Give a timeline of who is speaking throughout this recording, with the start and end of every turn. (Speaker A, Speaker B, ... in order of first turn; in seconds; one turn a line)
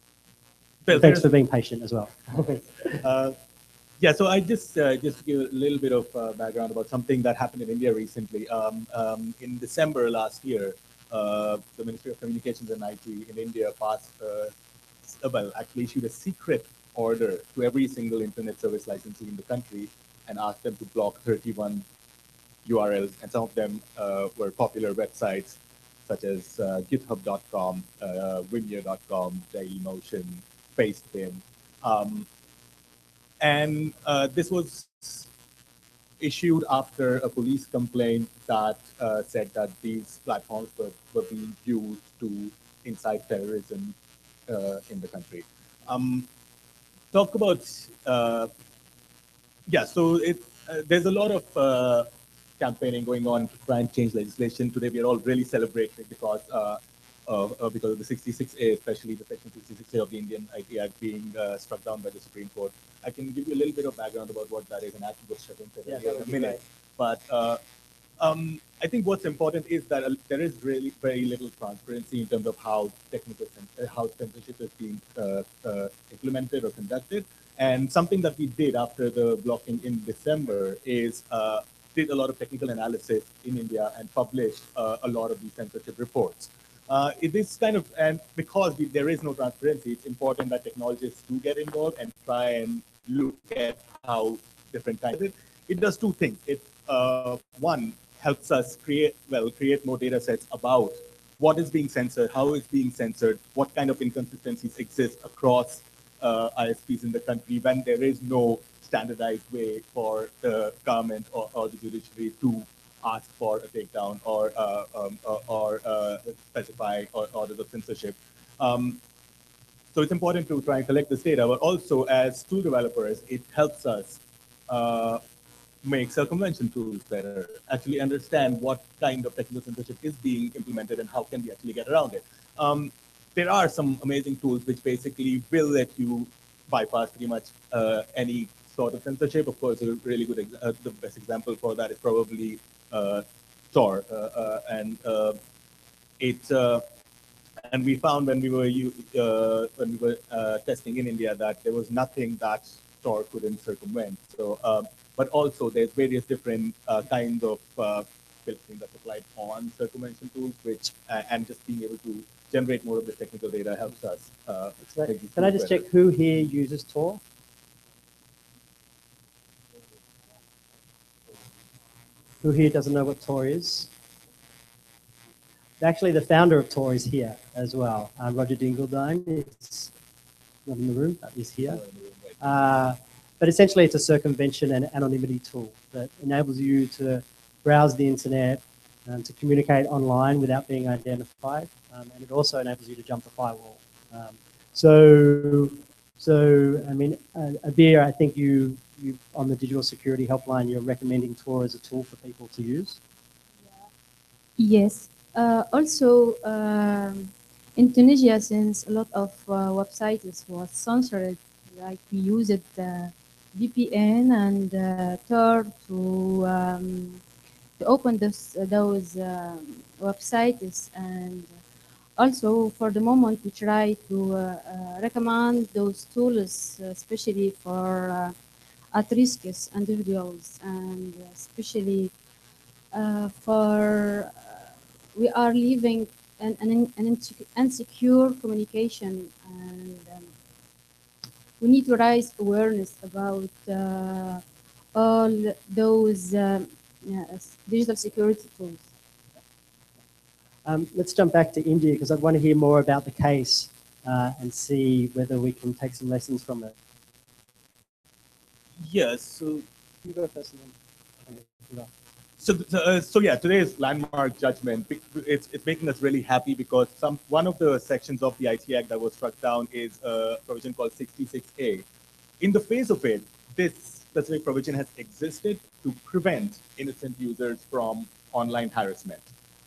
Speaker A: 0.9-1.3
Speaker B: 0.9-3.0
Speaker A: 3.0-3.4
Speaker A: 4.0-14.5
Speaker A: 15.2-21.8
Speaker A: 22.6-32.3
Speaker A: 33.4-35.2
Speaker A: 36.2-43.9
Speaker A: 44.5-46.3
Speaker A: 47.1-48.5
Speaker A: 49.7-52.1
Speaker A: 52.6-67.6
Speaker B: 65.8-66.6
Speaker A: 68.2-119.0
Speaker A: 119.9-125.2
Speaker A: 125.8-145.4
Speaker A: 146.2-146.8
Speaker A: 147.7-165.8
Speaker B: 164.8-167.2
Speaker B: 172.4-173.9
Speaker B: 175.8-179.9
Speaker B: 180.7-181.8
Speaker A: 181.6-182.4
Speaker B: 182.4-203.0
Speaker C: 204.6-217.2
Speaker C: 217.8-221.5
Speaker C: 222.2-228.3
Speaker C: 228.9-232.1
Speaker C: 232.9-234.6
Speaker C: 235.1-240.3
Speaker C: 241.6-244.4
Speaker C: 244.9-248.9
Speaker B: 250.6-256.7
Speaker A: 258.8-259.6
Speaker B: 260.0-260.7
Speaker B: 261.2-261.9
Speaker A: 262.4-271.8
Speaker A: 272.4-279.3